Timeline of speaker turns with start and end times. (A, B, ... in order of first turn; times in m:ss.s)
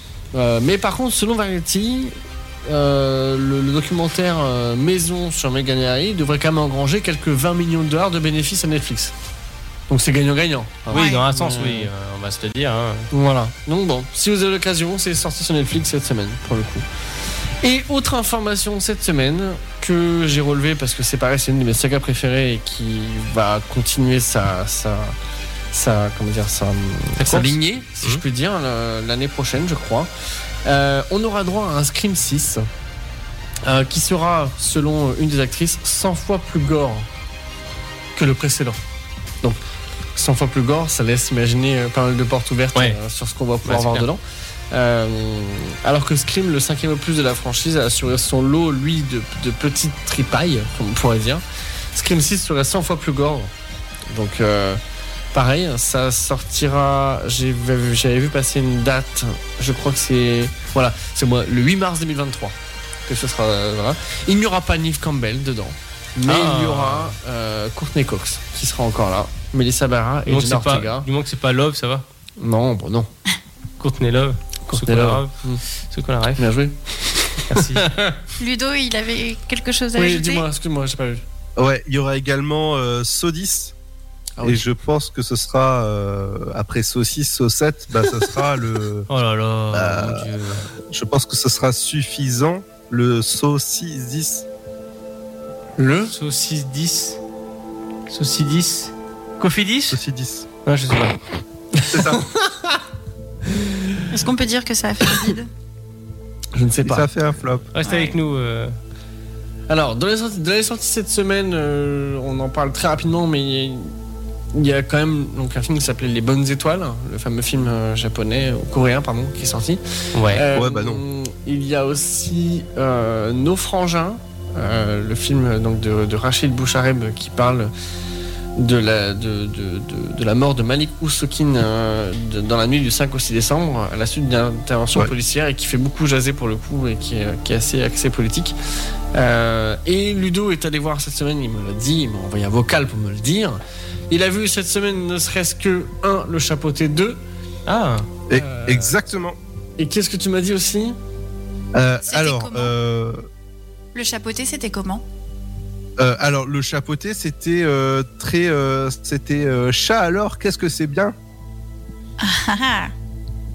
0:00.3-0:09.1 A
0:09.9-0:11.9 A
0:10.9-0:13.1 B
0:10.9-0:11.2 C
0:13.1-0:16.8 A
0:17.6-0:25.1 A
0:25.7-0:30.1 A
0:27.2-0:28.2 B
0:30.6-0:32.7 A
0:33.6-0:37.1 A
0:38.1-0:38.8 A
0:40.1-0:53.5 A
0:43.6-0:44.1 B
0:54.1-0:54.8 A
0:55.3-1:11.0 A
1:06.2-1:07.1 B
1:10.2-1:12.0 B
1:12.4-1:13.1 A
1:13.8-1:15.3 B
1:14.7-1:15.6 A
1:15.9-1:16.4 B
1:16.4-1:18.2 A
1:17.5-1:17.9 B
1:18.4-1:20.5 C
1:19.9-1:21.2 A
1:21.6-1:23.7 D
1:24.4-1:24.6 A
1:24.4-1:29.1 D
1:29.1-1:30.7 B
1:29.7-1:34.4 D
1:35.8-1:36.1 A
1:36.1-1:37.2 B
1:38.1-1:40.0 B
1:39.9-1:40.4 D
1:40.6-1:41.2 B
1:41.8-1:42.8 A
1:41.8-1:42.2 D
1:43.5-1:44.0 A
1:44.1-1:45.5 C
1:46.5-1:47.1 A
1:46.8-1:47.7 D
1:47.7-1:48.7 B
1:47.8-1:48.2 C
1:49.7-1:53.9 A
1:54.5-2:07.7 A
2:00.1-2:00.4 B
2:00.5-2:01.0 D
2:08.6-2:18.5 A
2:19.1-2:27.2 A
2:27.7-2:28.1 B
2:28.3-2:29.4 D
2:28.3-2:29.0 A
2:29.8-2:31.0 A
2:31.7-2:33.2 D
2:32.1-2:32.7 C
2:33.9-2:35.0 C
2:36.0-2:41.1 D
2:42.2-2:42.9 C